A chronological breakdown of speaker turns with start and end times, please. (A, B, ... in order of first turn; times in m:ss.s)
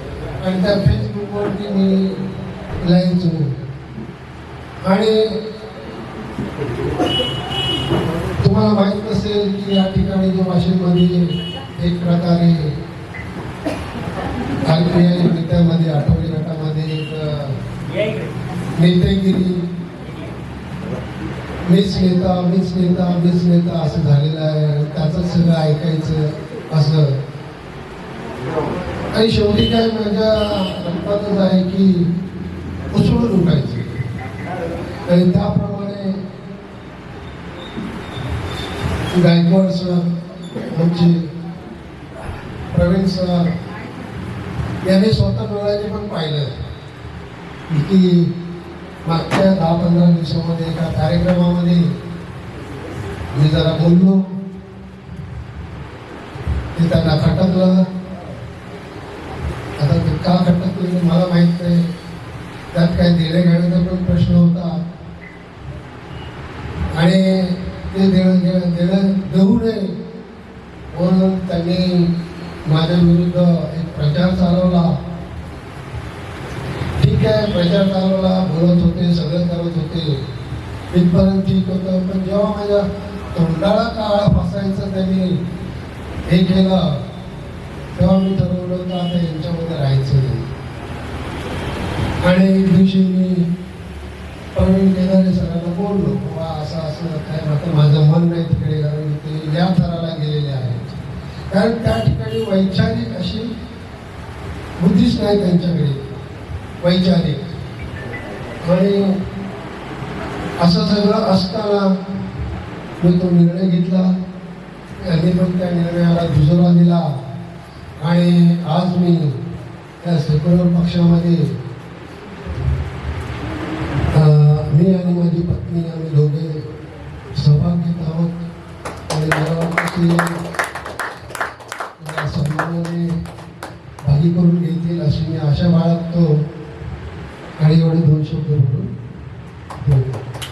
0:00.4-0:02.2 A
0:02.8-0:03.5 A
0:04.8-0:05.3 A
0:08.4-0:12.7 A
0:14.7-0:17.6 A
0:18.8-0:19.6 A
0:21.7-0:27.2 A
0:29.1-0:32.1 A
0:32.9-0:33.9 A
0:35.1-0:36.2 A
0:39.1-0:40.1 A
0:40.7-0:41.2 A
0:42.7-0:43.5 A
0:44.9-0:46.5 A
0:47.7-0:48.2 A
0:49.1-0:51.8 A
0:53.4-0:54.2 A
0:56.8-0:57.8 A
0:59.8-1:01.8 A
1:02.7-1:04.7 A
1:07.0-1:09.9 A
1:10.9-1:12.1 A
1:12.7-1:14.9 A
1:17.0-1:20.1 A
1:20.9-1:22.8 A
1:23.3-1:25.4 A
1:26.3-1:26.8 A
1:28.0-1:30.5 A
1:32.2-1:33.5 A
1:34.6-1:41.0 A
1:41.5-1:43.5 A
1:44.8-1:46.0 A
1:46.8-1:47.4 A
1:48.7-1:49.1 A
1:50.6-1:51.9 A
1:53.0-1:54.1 A
1:55.1-1:57.1 A
1:58.0-1:59.4 A
2:00.0-2:01.4 A
2:04.1-2:06.6 A
2:07.4-2:08.5 A
2:09.1-2:10.4 A
2:12.0-2:13.1 A
2:14.0-2:16.3 A
2:17.6-2:18.8 A
2:19.8-2:20.2 A